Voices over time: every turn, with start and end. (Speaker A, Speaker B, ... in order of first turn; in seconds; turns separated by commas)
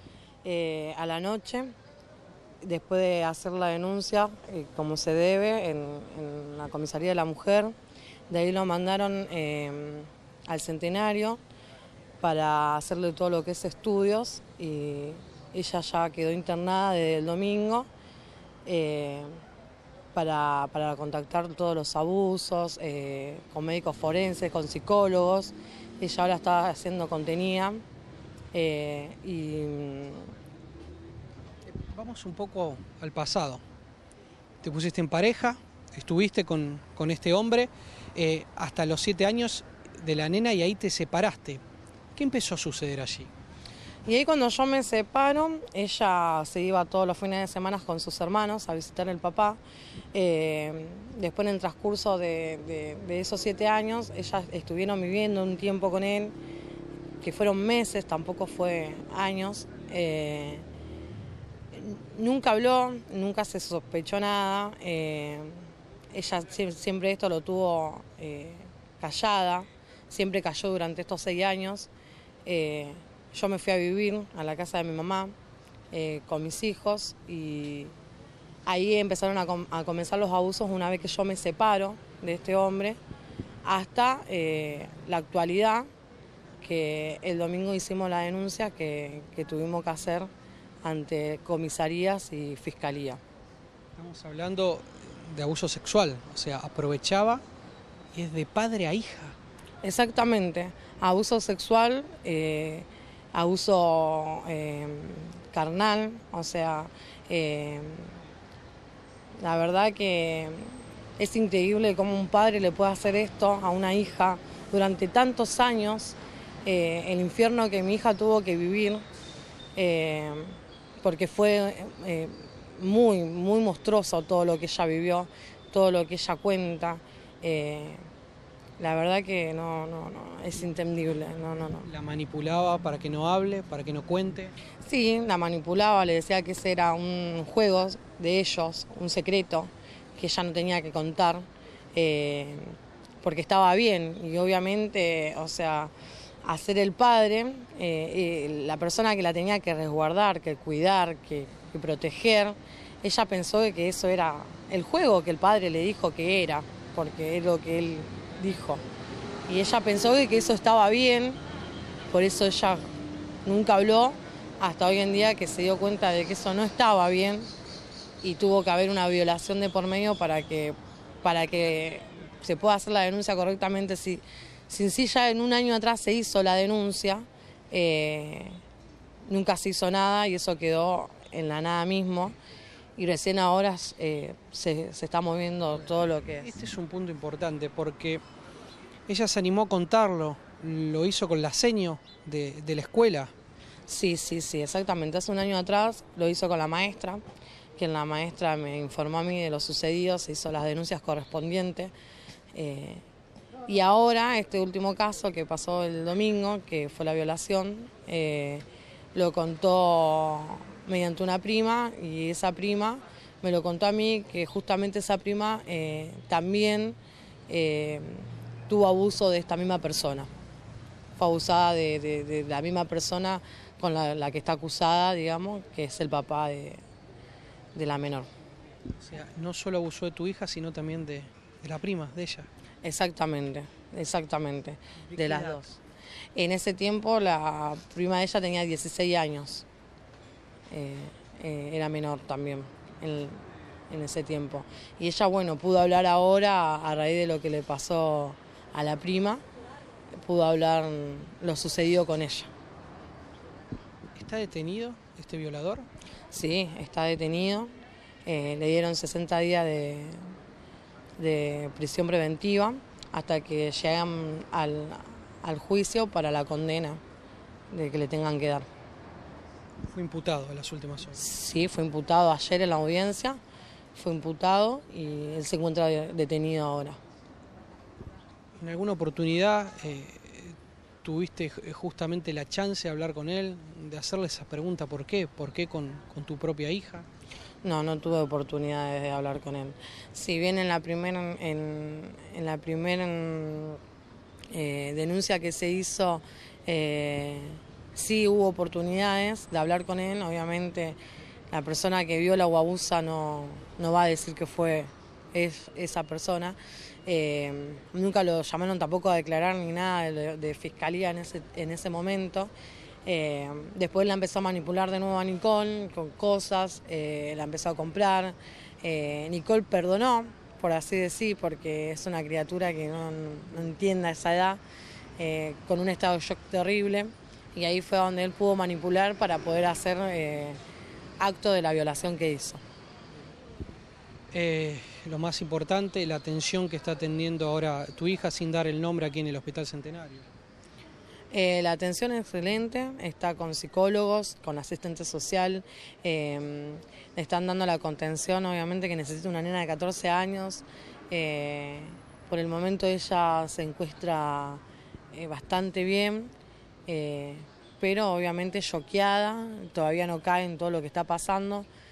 Speaker A: 0.4-1.7, Speaker A: 2.6-7.7, Speaker A: 8.3-11.4, Speaker A: 12.2-17.9, Speaker A: 18.7-19.4, Speaker A: 20.1-27.8, Speaker A: 28.5-30.3, Speaker B: 31.7-33.6, Speaker B: 34.6-41.6, Speaker B: 42.2-43.3, Speaker A: 44.0-49.6, Speaker A: 50.1-56.3, Speaker A: 57.2-60.6, Speaker A: 61.7-71.9, Speaker A: 72.5-75.3, Speaker A: 75.9-77.9, Speaker A: 78.7-83.0, Speaker A: 83.6-85.9, Speaker A: 86.6-90.3, Speaker A: 90.8-93.2, Speaker B: 94.0-97.4, Speaker B: 98.1-99.3, Speaker A: 99.8-108.2, Speaker A: 109.4-119.0, Speaker A: 119.8-128.0, Speaker A: 128.8-131.9, Speaker B: 131.9-134.5, Speaker A: 134.8-145.9, Speaker A: 146.4-158.8, Speaker A: 159.5-161.4, Speaker A: 162.1-162.9, Speaker A: 163.4-167.5, Speaker A: 168.2-178.6, Speaker A: 179.3-182.3, Speaker A: 183.0-186.5, Speaker B: 186.3-188.2, Speaker B: 189.1-193.3, Speaker A: 193.9-197.2, Speaker A: 197.8-201.9, Speaker A: 202.5-203.0, Speaker A: 203.7-217.0, Speaker A: 217.5-220.3, Speaker A: 221.2-226.8, Speaker A: 227.8-228.3, Speaker B: 228.9-232.5, Speaker A: 232.8-235.8, Speaker B: 235.1-235.6, Speaker A: 236.3-239.6, Speaker A: 240.7-249.4, Speaker A: 250.2-252.5, Speaker B: 254.1-255.9, Speaker A: 256.3-257.7, Speaker A: 258.2-260.3, Speaker A: 261.2-267.0, Speaker A: 267.7-268.7, Speaker B: 269.9-271.2, Speaker A: 271.2-273.4, Speaker A: 273.9-277.0, Speaker B: 278.6-287.1, Speaker A: 287.6-293.8, Speaker A: 294.5-301.0, Speaker A: 301.5-312.5, Speaker A: 313.1-324.6, Speaker A: 325.2-330.6, Speaker A: 331.2-332.6, Speaker B: 334.3-340.2, Speaker A: 341.3-356.3, Speaker A: 356.9-361.7